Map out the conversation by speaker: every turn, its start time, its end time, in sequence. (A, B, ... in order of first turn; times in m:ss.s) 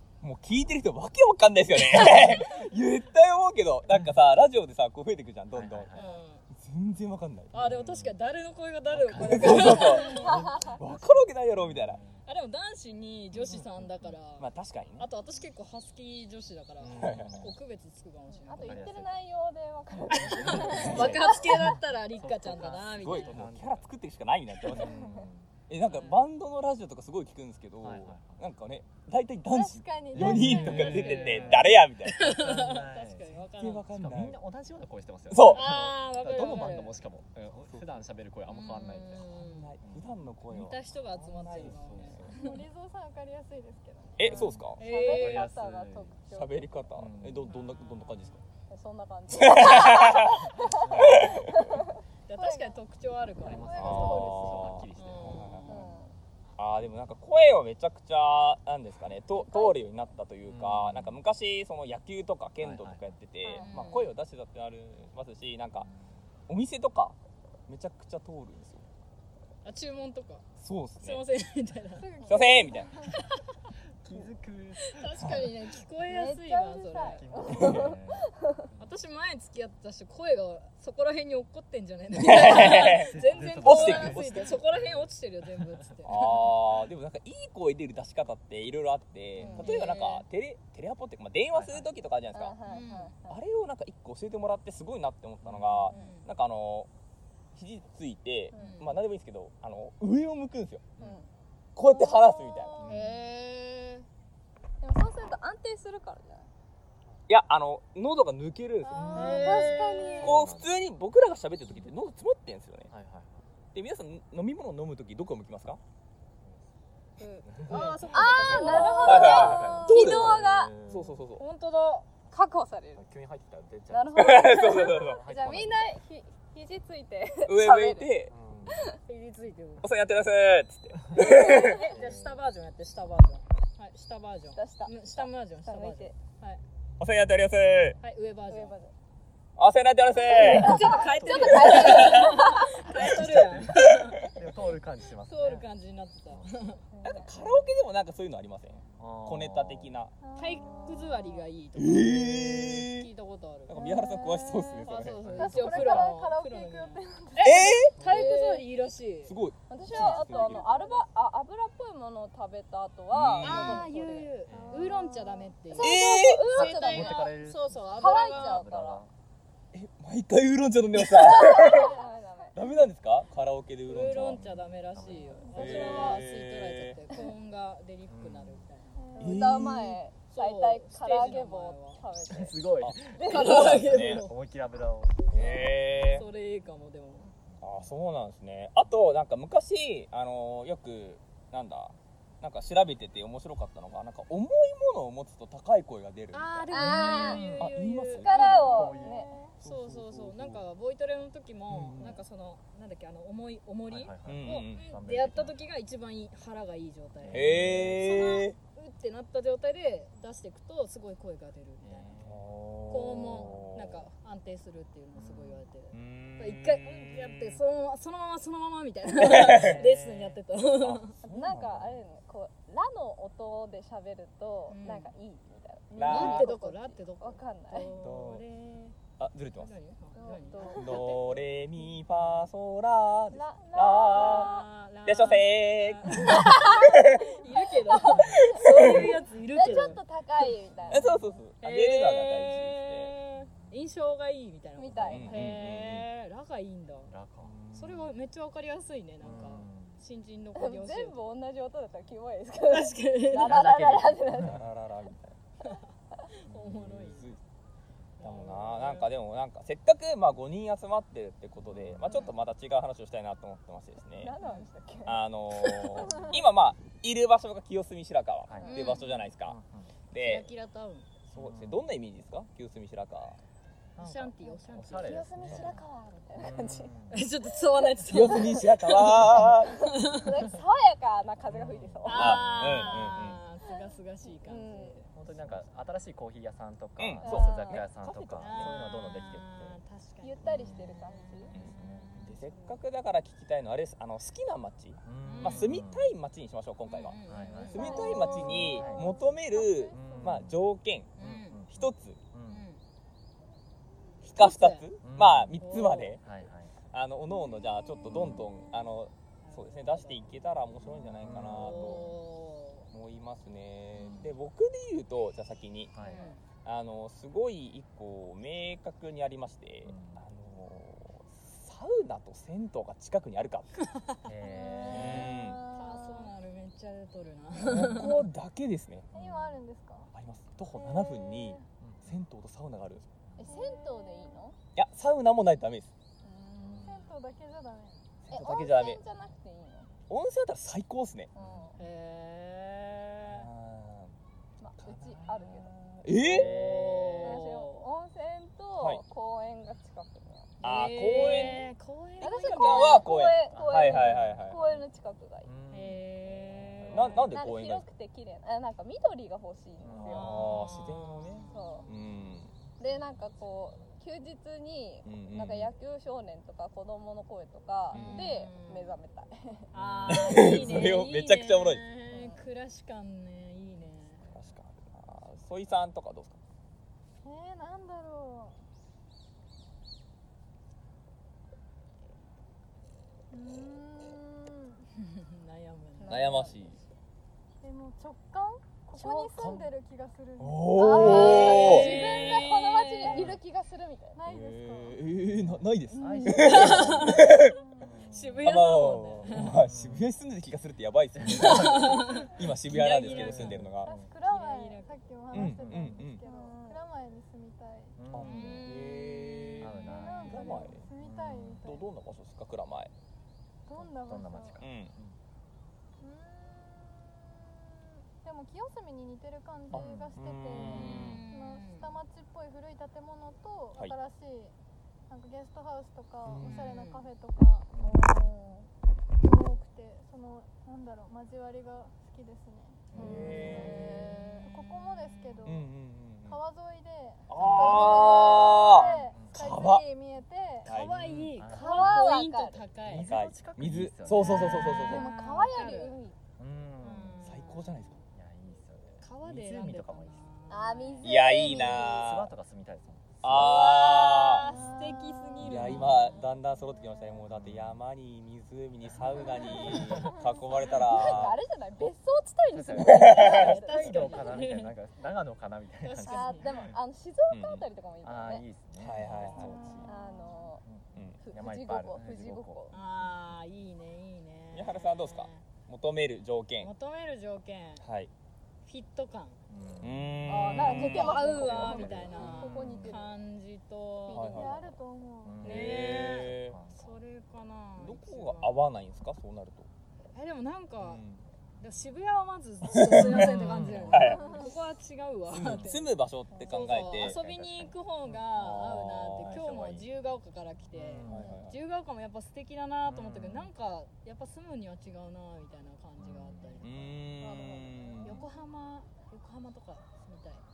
0:00.2-0:07.5 A
0:01.9-0:02.4 B
0:05.5-0:06.1 C
0:05.9-0:06.4 B
0:07.5-0:10.5 B
0:07.6-0:08.2 C
0:08.9-0:12.2 C
0:09.2-0:12.0 A
0:09.8-0:10.8 D
0:12.2-0:14.5 B
0:13.4-0:14.1 C
0:14.4-0:15.1 A
0:15.0-0:19.0 B
0:16.8-0:17.5 C
0:17.0-0:17.5 A
0:18.3-0:21.4 D
0:18.6-0:19.2 C
0:20.1-0:23.9 C
0:20.3-0:23.4 B
0:20.6-0:21.3 A
0:23.0-0:25.0 A
0:24.6-0:25.5 C
0:24.8-0:25.2 D
0:25.7-0:32.6 A
0:25.8-0:26.2 B
0:27.8-0:28.5 C
0:29.5-0:31.1 E
0:30.1-0:39.3 C
0:30.1-0:33.8 B
0:33.6-0:34.4 A
0:35.3-0:35.6 A
0:35.4-0:37.0 B
0:38.5-0:39.7 B
0:39.4-0:42.3 A
0:39.8-0:40.2 C
0:40.5-0:42.6 B
0:41.5-0:42.3 C
0:42.3-0:44.5 E
0:44.2-0:44.8 A
0:44.2-0:46.8 D
0:44.6-0:46.2 C
0:44.8-0:45.5 B
0:46.3-0:48.4 A
0:47.0-0:47.5 C
0:47.5-0:48.4 B
0:48.7-0:51.8 D
0:49.3-0:51.8 A
0:50.6-0:51.4 C
0:52.3-0:55.8 B
0:52.4-0:52.8 E
0:53.4-0:55.9 C
0:53.5-0:54.6 E
0:53.8-0:55.7 A
0:55.7-0:56.2 D
0:56.6-1:05.9 A
0:59.3-0:59.8 D
1:00.5-1:01.2 C
1:02.6-1:03.0 C
1:03.4-1:03.7 D
1:03.6-1:04.2 B
1:06.5-1:07.2 A
1:07.7-1:08.8 A
1:09.6-1:10.5 B
1:10.6-1:11.2 A
1:11.0-1:12.2 B
1:11.9-1:13.1 E
1:12.2-1:12.9 A
1:13.1-1:13.4 B
1:14.0-1:15.4 C
1:14.8-1:17.2 B
1:15.2-1:15.4 A
1:16.0-1:18.7 D
1:17.0-1:19.0 C
1:17.5-1:17.9 A
1:18.8-1:26.5 B
1:22.2-1:24.6 A
1:22.3-1:25.9 C
1:26.0-1:32.6 A
1:29.4-1:29.8 D
1:29.4-1:29.8 C
1:29.6-1:30.2 B
1:31.5-1:31.9 C
1:32.3-1:33.4 D
1:32.7-1:33.1 B
1:33.3-1:36.9 A
1:35.4-1:35.9 C
1:35.9-1:36.3 B
1:37.5-1:41.2 A
1:38.5-1:38.8 D
1:38.6-1:39.0 B
1:41.0-1:41.3 D
1:41.8-1:43.0 A
1:41.9-1:42.8 D
1:42.8-1:43.1 C
1:42.9-1:44.1 B
1:44.8-1:46.5 D
1:47.3-1:49.5 A
1:48.8-1:49.9 E
1:48.9-1:50.4 B
1:49.2-1:50.4 D
1:50.2-1:50.7 C
1:50.2-1:52.9 A
1:52.9-1:53.3 C
1:53.7-1:55.8 A
1:57.2-2:00.7 D
1:57.5-2:01.2 C
1:57.7-1:59.8 B
1:58.5-2:01.4 A
2:01.4-2:02.1 B
2:02.3-2:03.0 D
2:03.0-2:05.9 C
2:03.9-2:08.2 D
2:04.1-2:05.7 A
2:07.5-2:08.3 A
2:08.3-2:08.8 C
2:08.7-2:09.0 D
2:09.1-2:09.9 B
2:09.8-2:11.9 A
2:11.2-2:16.6 B
2:11.4-2:11.7 D
2:11.9-2:12.4 C
2:14.5-2:16.2 D
2:17.0-2:18.0 A
2:18.0-2:18.7 B
2:18.5-2:18.9 D
2:19.6-2:24.3 A
2:20.2-2:22.8 D
2:20.4-2:24.3 B
2:20.9-2:21.9 C
2:23.0-2:25.7 C
2:25.3-2:26.8 B
2:26.9-2:27.5 D
2:27.0-2:30.1 A
2:29.0-2:29.9 C
2:30.2-2:31.0 E
2:30.4-2:34.0 B
2:30.6-2:31.4 D
2:31.8-2:33.1 A
2:33.7-2:36.1 A
2:33.8-2:34.8 D
2:33.9-2:37.9 E
2:34.8-2:39.4 B
2:35.2-2:35.8 C
2:37.4-2:37.9 A
2:38.0-2:38.2 C
2:38.0-2:38.6 D
2:39.3-2:40.7 A
2:39.7-2:47.2 D
2:40.1-2:40.6 B
2:43.1-2:43.9 A
2:43.4-2:48.6 B
2:44.5-2:44.9 C
2:45.8-2:46.5 A
2:46.5-2:49.1 C
2:47.9-2:49.0 D
2:49.7-2:52.0 A
2:51.0-2:52.6 D
2:52.6-2:54.4 A
2:53.8-2:59.1 B
2:54.3-2:56.2 C
2:55.5-2:57.0 A
2:55.6-2:56.2 D
2:58.1-2:58.7 C
2:59.0-2:59.5 E
2:59.2-3:03.8 D
2:59.2-3:00.0 A
3:00.3-3:02.0 B
3:02.3-3:06.2 C
3:02.8-3:04.2 A
3:03.2-3:04.3 B
3:05.3-3:06.3 A
3:05.5-3:07.3 B
3:07.3-3:07.8 C
3:07.6-3:18.9 A
3:16.3-3:18.8 B
3:16.7-3:17.4 D
3:17.2-3:17.8 C
3:18.2-3:19.3 D
3:18.4-3:19.2 C
3:18.9-3:19.6 E
3:19.6-3:20.6 A
3:19.6-3:32.1 B
3:21.7-3:22.2 A
3:23.9-3:25.6 C
3:24.3-3:24.8 A
3:27.2-3:28.3 C
3:27.3-3:28.6 A
3:31.8-3:32.5 C
3:32.2-3:34.1 A
3:32.9-3:41.1 B
3:33.4-3:33.7 C
3:35.2-3:35.6 C
3:35.9-3:37.6 A
3:39.2-3:39.8 A
3:39.3-3:40.4 C
3:40.8-3:42.0 A
3:41.2-3:47.9 D
3:44.7-3:45.1 B
3:46.0-3:46.5 A
3:46.0-3:49.0 B
3:48.0-3:48.4 A
3:49.2-3:49.7 A
3:49.6-3:51.0 B
3:50.2-3:51.4 D
3:50.7-3:57.4 A
3:53.3-3:54.7 D
3:54.1-4:00.0 B
3:56.1-4:01.3 D
3:58.2-3:59.1 A
4:00.9-4:03.1 A
4:01.6-4:07.1 B
4:04.8-4:05.4 D
4:05.1-4:06.1 A
4:07.0-4:07.6 C
4:07.4-4:08.0 A
4:07.7-4:11.2 B
4:09.2-4:10.0 C
4:10.6-4:14.6 D
4:12.7-4:14.1 B
4:13.4-4:15.4 A
4:14.4-4:14.6 C
4:16.3-4:17.3 B
4:16.5-4:16.8 C
4:16.7-4:17.4 A
4:18.2-4:19.1 B
4:18.2-4:24.3 A
4:21.6-4:22.1 C
4:22.1-4:22.3 B
4:24.2-4:25.2 D
4:25.1-4:29.6 A
4:28.5-4:28.7 C
4:28.6-4:29.0 D
4:28.7-4:29.2 B
4:29.4-4:29.9 C
4:30.1-4:30.5 A
4:30.2-4:31.1 B
4:31.3-4:33.4 A
4:31.4-4:31.8 C
4:34.0-4:35.7 C
4:34.0-4:35.8 B
4:34.9-4:36.9 D
4:36.3-4:37.2 C
4:37.1-4:40.5 B
4:37.8-4:43.0 D
4:38.1-4:39.8 A
4:41.5-4:42.8 C
4:42.0-4:45.1 B
4:42.1-4:43.4 A
4:43.7-4:45.0 D
4:45.1-4:49.8 C
4:47.0-4:48.7 A
4:47.2-4:47.9 D
4:48.4-4:52.4 B
4:50.2-4:51.5 D
4:50.4-4:50.9 C
4:51.5-4:52.3 C
4:51.5-4:57.2 A
4:55.0-4:56.2 C
4:55.2-4:55.8 B
4:56.9-4:58.2 B
4:57.3-4:59.2 C
4:57.6-5:00.5 E
4:57.7-5:01.1 A
4:57.8-4:58.9 D
4:59.9-5:00.7 C
5:01.2-5:01.6 B
5:01.2-5:02.6 C
5:01.7-5:02.2 A
5:02.5-5:02.8 B
5:04.2-5:04.8 B
5:04.3-5:06.2 A
5:05.0-5:05.6 C
5:05.6-5:06.2 B
5:06.2-5:06.9 C
5:06.9-5:12.1 A
5:07.4-5:08.9 E
5:08.1-5:08.5 C
5:09.4-5:10.3 B
5:11.2-5:12.1 C
5:11.2-5:12.9 B
5:12.9-5:16.0 A
5:14.0-5:14.4 C
5:15.9-5:16.3 C
5:16.0-5:16.4 B
5:16.6-5:23.7 A
5:19.8-5:20.2 C
5:23.9-5:24.2 B
5:24.2-5:25.3 C
5:24.6-5:25.2 E
5:24.8-5:28.3 B
5:24.9-5:25.6 A
5:24.9-5:26.3 D
5:27.6-5:29.1 A
5:29.1-5:29.6 C
5:29.2-5:30.1 E
5:30.1-5:33.0 A
5:30.7-5:31.6 E
5:31.8-5:32.2 C
5:33.3-5:33.6 C
5:33.4-5:34.6 D
5:33.4-5:34.4 E
5:34.8-5:35.9 A
5:36.2-5:37.0 D
5:36.6-5:36.9 C
5:36.8-5:38.0 E
5:38.2-5:39.0 A
5:38.3-5:39.9 D
5:40.1-5:41.3 A
5:41.3-5:41.8 D
5:41.4-5:41.8 C
5:41.8-5:43.5 B
5:43.3-5:44.1 A
5:44.6-5:45.7 D
5:44.9-5:45.3 A
5:44.9-5:47.4 C
5:46.0-5:46.6 A
5:46.3-5:47.9 B
5:47.2-5:50.6 D
5:48.8-5:49.0 A
5:50.6-5:53.1 B
5:50.6-5:51.7 A
5:52.2-5:55.5 D
5:52.5-5:54.6 A
5:53.5-5:54.8 C
5:55.4-5:57.3 C
5:55.7-5:57.3 B
5:56.9-5:57.8 A
5:57.3-6:00.4 D
5:59.8-6:00.3 C
6:00.0-6:01.9 B
6:00.1-6:02.5 A
6:01.5-6:01.9 D
6:02.8-6:09.7 D
6:05.0-6:05.7 A
6:07.9-6:09.0 B
6:07.9-6:08.3 A
6:09.7-6:11.8 A
6:09.7-6:14.2 B
6:12.1-6:12.4 D
6:14.2-6:14.6 C
6:14.3-6:16.4 A
6:17.2-6:18.6 E
6:23.3-6:24.9 E
6:25.0-6:26.3 B
6:26.0-6:26.8 D
6:26.1-6:26.8 A
6:27.6-6:31.9 E
6:28.9-6:29.3 D
6:29.4-6:29.6 A
6:30.4-6:31.9 A
6:30.8-6:34.2 D
6:31.0-6:33.3 B
6:34.2-6:35.1 E
6:34.3-6:37.5 A
6:35.2-6:37.3 C
6:35.9-6:36.8 D
6:36.4-6:37.4 B
6:37.4-6:38.0 E
6:37.8-6:38.5 C
6:38.1-6:39.5 B
6:38.4-6:43.9 A
6:39.5-6:40.1 C
6:41.2-6:41.9 C
6:41.4-6:43.7 B
6:43.1-6:44.1 C
6:43.8-6:48.0 E
6:44.2-6:45.1 B
6:45.3-6:46.2 A
6:45.4-6:46.2 C
6:46.2-6:46.8 D
6:48.0-6:48.7 C
6:48.1-6:52.9 A
6:48.2-6:50.0 B
6:49.6-6:51.6 C
6:49.9-6:51.9 E
6:53.7-6:54.6 E
6:53.8-6:55.2 C
6:54.6-6:54.9 A
6:56.0-6:57.6 E
6:58.2-7:04.5 E
6:59.7-7:00.1 C
6:59.7-7:01.2 A
7:00.6-7:02.0 B
7:05.1-7:08.2 E
7:06.2-7:06.7 A
7:06.6-7:07.1 B
7:07.8-7:08.7 D
7:09.2-7:15.7 E
7:12.9-7:13.4 C
7:12.9-7:13.9 A
7:13.0-7:14.5 D
7:15.2-7:15.5 B
7:15.4-7:16.4 A
7:16.3-7:20.7 E
7:17.3-7:19.8 A
7:17.4-7:17.9 C
7:19.1-7:19.5 C
7:20.6-7:21.3 A
7:20.7-7:23.1 B
7:20.9-7:21.7 C
7:21.5-7:22.6 D
7:22.8-7:24.8 C
7:22.9-7:25.0 A
7:24.1-7:26.0 B
7:24.8-7:26.2 D
7:26.4-7:27.4 C
7:26.8-7:27.9 B
7:27.2-7:28.0 A
7:28.1-7:30.2 C
7:29.0-7:31.5 B
7:30.5-7:32.0 D
7:31.0-7:32.3 A
7:31.8-7:33.6 C
7:33.2-7:34.5 A
7:33.3-7:36.3 B
7:35.4-7:41.4 A
7:35.5-7:35.9 C
7:37.3-7:37.8 C
7:38.9-7:40.3 C
7:40.7-7:44.4 D
7:41.0-7:41.4 C
7:42.5-7:46.7 C
7:42.8-7:43.5 A
7:43.0-7:44.8 B
7:45.8-7:46.5 B
7:46.0-7:48.5 D
7:47.3-7:47.6 A
7:48.0-7:49.9 C
7:48.8-7:49.6 A
7:49.0-7:49.9 B
7:49.8-7:50.6 D
7:49.9-7:50.4 E
7:50.6-7:52.8 C
7:51.2-7:52.8 D
7:52.7-7:55.5 B
7:54.5-7:56.7 A
7:56.6-7:57.9 B
7:57.8-7:58.1 A
7:58.6-7:59.4 B
7:59.5-8:02.9 C
7:59.8-8:01.4 A
8:00.3-8:03.1 D
8:00.7-8:04.4 B
8:04.1-8:04.5 D
8:04.1-8:04.8 A
8:04.2-8:05.4 E
8:05.2-8:07.0 C
8:05.4-8:08.6 B
8:05.4-8:06.6 A
8:07.8-8:09.7 A
8:10.1-8:11.0 B
8:10.8-8:11.2 A
8:11.6-8:15.9 B
8:12.7-8:14.3 A
8:12.9-8:14.2 C
8:14.2-8:14.4 D
8:14.2-8:14.5 E
8:15.3-8:17.2 A
8:16.3-8:16.7 D
8:16.4-8:26.8 B
8:17.0-8:18.2 C
8:18.3-8:19.8 A
8:19.5-8:19.8 C
8:20.7-8:21.4 C
8:21.1-8:21.6 A
8:21.1-8:21.4 D
8:22.9-8:23.5 C
8:26.0-8:28.2 C
8:26.6-8:28.2 A
8:27.2-8:28.0 D
8:28.0-8:30.4 B